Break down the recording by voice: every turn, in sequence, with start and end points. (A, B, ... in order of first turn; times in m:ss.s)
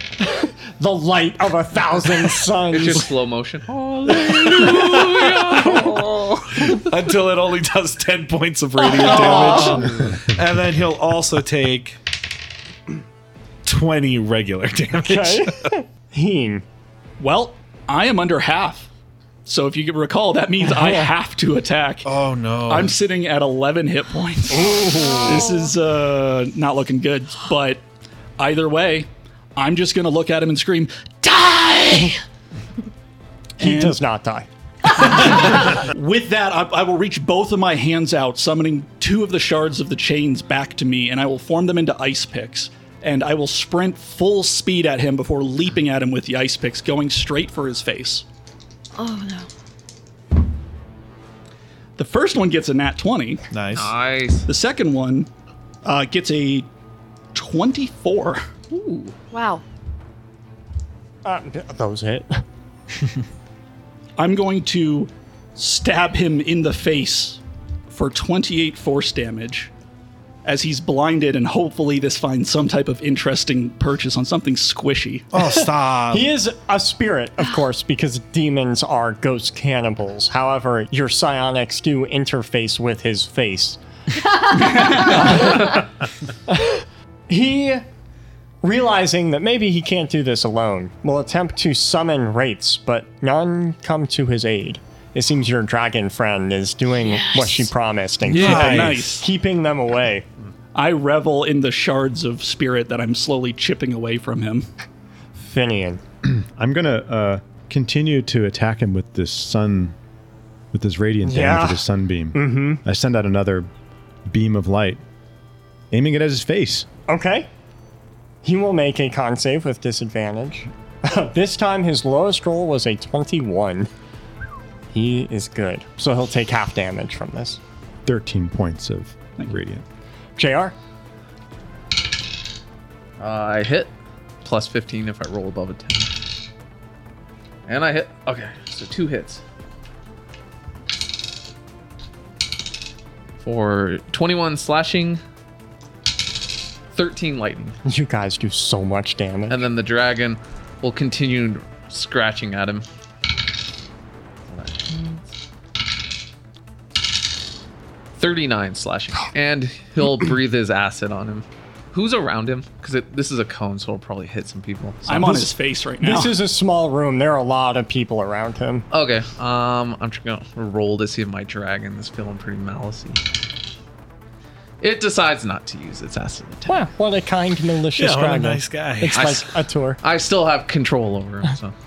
0:00.2-0:03.1 A
0:02.7-0:06.7 B
0:03.7-0:12.0 C
0:08.8-0:09.9 A
0:13.6-0:15.7 C
0:15.0-0:16.6 A
0:17.2-0:18.9 D
0:19.4-0:22.1 D
0:20.7-0:21.1 A
0:22.0-0:22.9 C
0:22.7-0:27.8 D
0:24.5-0:25.5 A
0:28.4-0:32.2 D
0:33.6-0:34.0 D
0:33.6-0:34.5 A
0:35.0-0:48.2 D
0:49.0-0:49.5 E
0:52.0-0:53.4 D
0:53.5-0:53.9 C
0:53.7-0:54.5 B
0:54.4-0:55.3 D
0:55.8-0:56.7 D
0:57.3-0:58.4 D
0:58.7-0:59.1 B
0:59.3-0:59.6 E
1:01.2-1:02.4 A
1:04.2-1:09.7 D
1:10.4-1:15.3 D
1:15.3-1:16.3 C
1:15.4-1:23.8 A
1:24.2-1:25.7 E
1:25.0-1:25.8 A
1:26.5-1:27.8 A
1:28.6-1:40.2 A
1:38.2-1:39.1 C
1:38.3-1:39.2 D
1:40.7-1:44.7 D
1:45.4-1:46.0 A
1:46.2-1:49.9 F
1:50.7-1:53.7 F
1:51.2-1:52.8 A
1:54.3-1:55.0 F
1:55.9-1:56.8 F
1:57.1-1:57.5 A
1:58.4-2:03.9 A
2:04.9-2:07.6 A
2:08.0-2:09.8 F
2:10.4-2:10.7 A
2:13.2-2:13.9 B
2:14.4-2:16.1 B
2:17.7-2:19.4 B
2:23.4-2:25.2 B
2:26.9-2:27.8 B
2:27.8-2:29.6 A
2:29.5-2:32.8 B
2:34.5-2:35.2 B
2:38.2-2:45.3 B
2:45.0-2:46.3 D
2:46.0-2:48.8 A
2:48.9-2:53.2 B
2:54.8-2:56.8 B
2:56.7-3:00.0 A
2:58.0-2:59.4 C
2:59.1-2:59.4 B
3:00.0-3:01.7 B